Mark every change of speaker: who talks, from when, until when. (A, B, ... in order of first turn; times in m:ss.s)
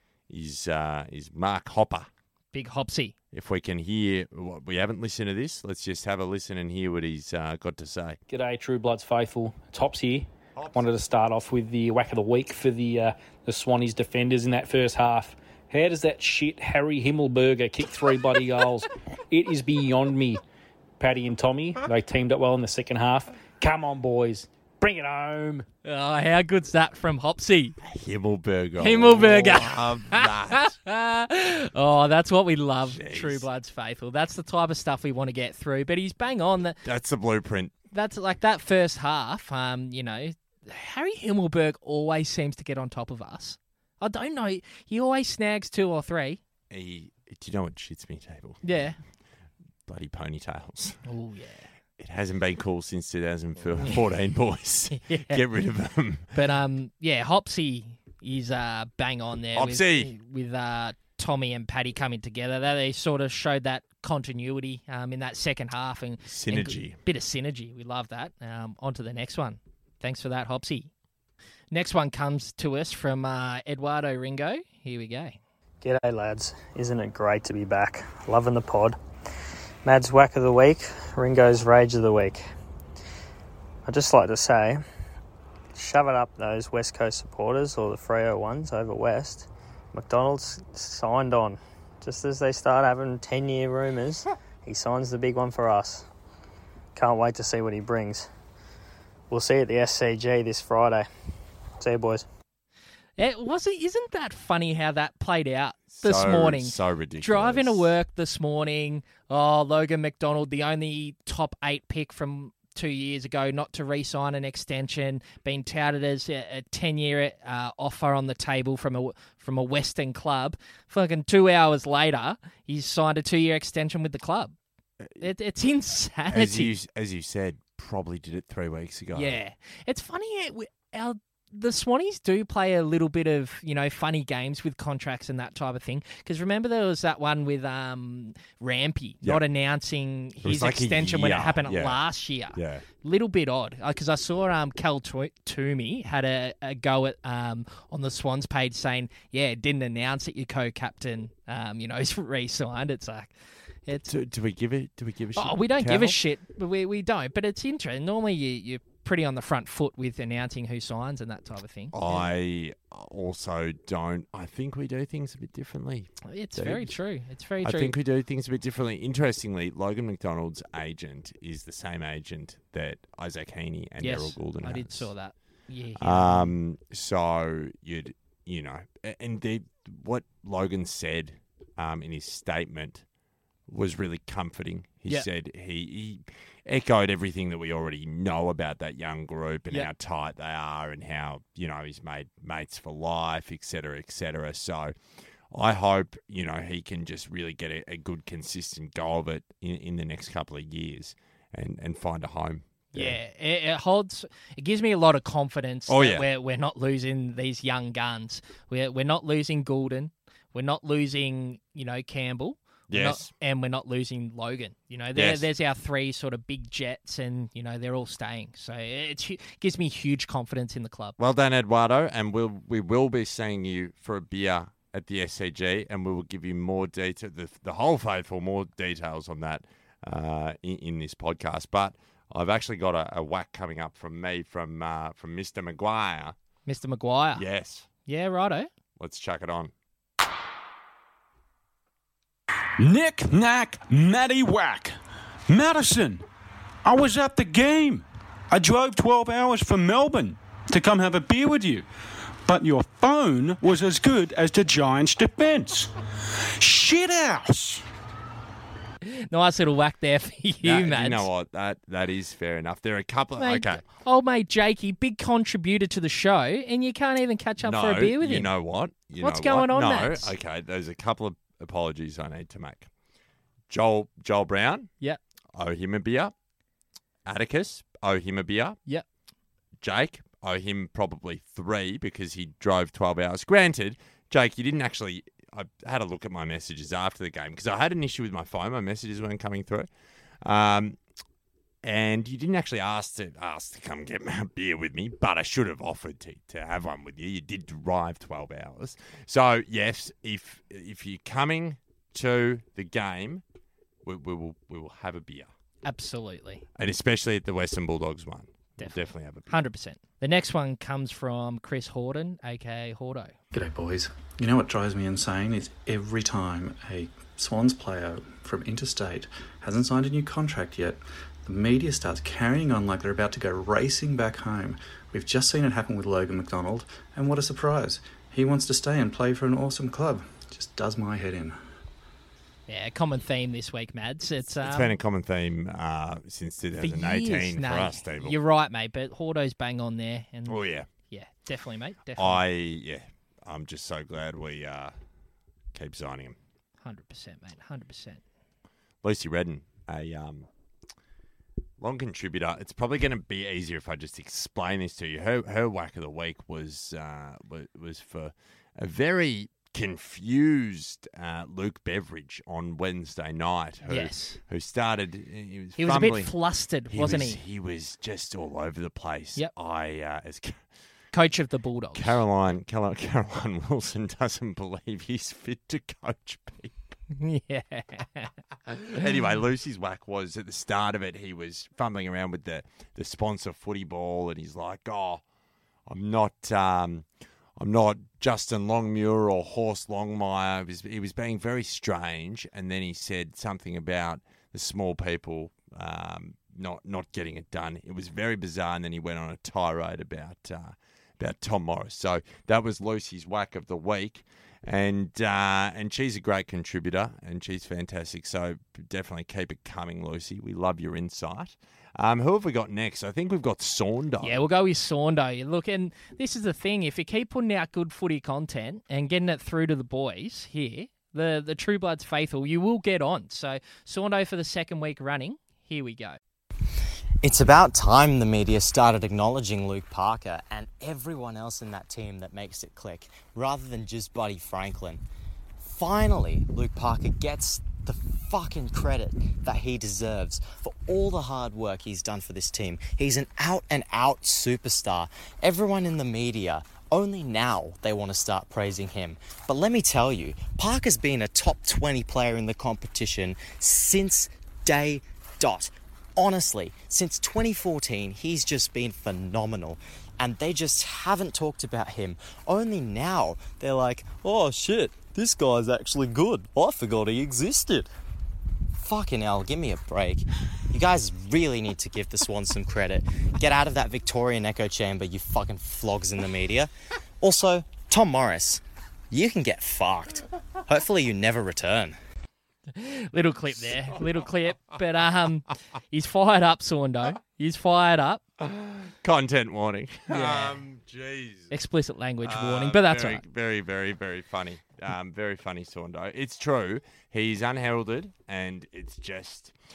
0:00.3-0:02.1 A
0:02.5-0:03.1 B
0:03.3-0:08.2 A
0:08.3-0:20.4 C
0:10.6-0:10.8 A
0:21.0-0:25.7 C
0:25.8-0:27.8 B
0:27.8-0:30.7 A
0:28.8-0:36.8 B
0:32.8-0:33.5 A
0:36.8-0:37.7 A
0:37.9-0:46.4 B
0:46.7-0:48.6 A
0:48.6-0:49.0 B
0:49.9-0:51.0 A
0:51.0-0:51.7 B
0:52.0-0:56.3 A
0:54.9-0:55.4 B
0:56.3-1:10.9 B
0:59.5-1:00.1 A
1:06.2-1:07.0 A
1:11.7-1:15.4 B
1:15.8-1:19.0 D
1:19.8-1:22.4 D
1:23.8-1:24.8 D
1:25.7-1:36.0 D
1:36.9-1:38.3 D
1:39.3-1:41.1 D
1:41.8-1:42.2 D
1:43.2-2:04.5 B
1:45.9-1:47.9 A
2:05.2-2:06.7 B
2:06.3-2:09.4 A
2:09.1-2:33.3 B
2:20.4-2:22.0 A
2:22.5-2:22.8 A
2:34.0-2:36.2 A
2:35.4-2:42.3 B
2:41.9-2:46.9 A
2:46.2-2:48.0 B
2:47.6-2:55.1 A
2:54.0-2:56.6 B
2:56.0-3:03.0 A
3:03.7-3:14.9 A
3:15.5-3:23.2 A
3:22.9-3:41.2 B
3:25.9-3:26.2 A
3:32.9-3:33.3 A
3:35.1-3:35.5 A
3:41.2-3:56.3 A
3:56.6-3:57.4 B
3:57.3-3:57.9 A
3:58.0-3:58.7 B
3:59.0-3:59.7 A
4:02.8-4:05.0 E
4:05.5-4:06.2 E
4:06.8-4:11.8 E
4:12.4-4:15.9 E
4:16.6-4:17.8 E
4:19.0-4:21.3 B
4:20.6-4:23.8 A
4:23.4-4:28.5 B
4:27.6-4:32.9 A
4:29.2-4:30.3 B
4:33.7-4:34.9 A
4:35.5-4:36.3 A
4:37.2-4:38.8 A
4:39.8-4:49.9 A
4:50.4-4:51.0 A
4:51.8-5:03.4 A
5:04.0-5:05.5 A
5:05.8-5:06.6 B
5:06.8-5:09.5 A
5:08.8-5:13.3 B
5:13.5-5:31.6 F
5:32.7-5:35.0 B
5:34.6-5:38.4 A
5:36.8-5:42.4 B
5:40.4-5:40.9 A
5:42.2-5:44.9 A
5:45.7-5:46.4 A
5:46.8-5:48.2 B
5:49.0-5:50.5 A
5:51.8-6:06.3 A
6:03.9-6:04.4 B
6:05.8-6:07.4 B
6:06.9-6:10.6 A
6:11.1-6:12.2 B
6:11.9-6:16.8 A
6:17.1-6:18.3 B
6:18.7-6:25.2 A
6:25.9-6:27.0 A
6:27.6-6:54.4 A
6:54.2-7:06.2 B
7:07.2-7:15.0 G
7:15.6-7:47.9 G
7:48.7-8:02.0 G
8:02.7-8:08.2 B
8:08.4-8:11.5 A
8:10.1-8:10.6 B
8:11.5-8:13.2 B
8:12.2-8:19.5 A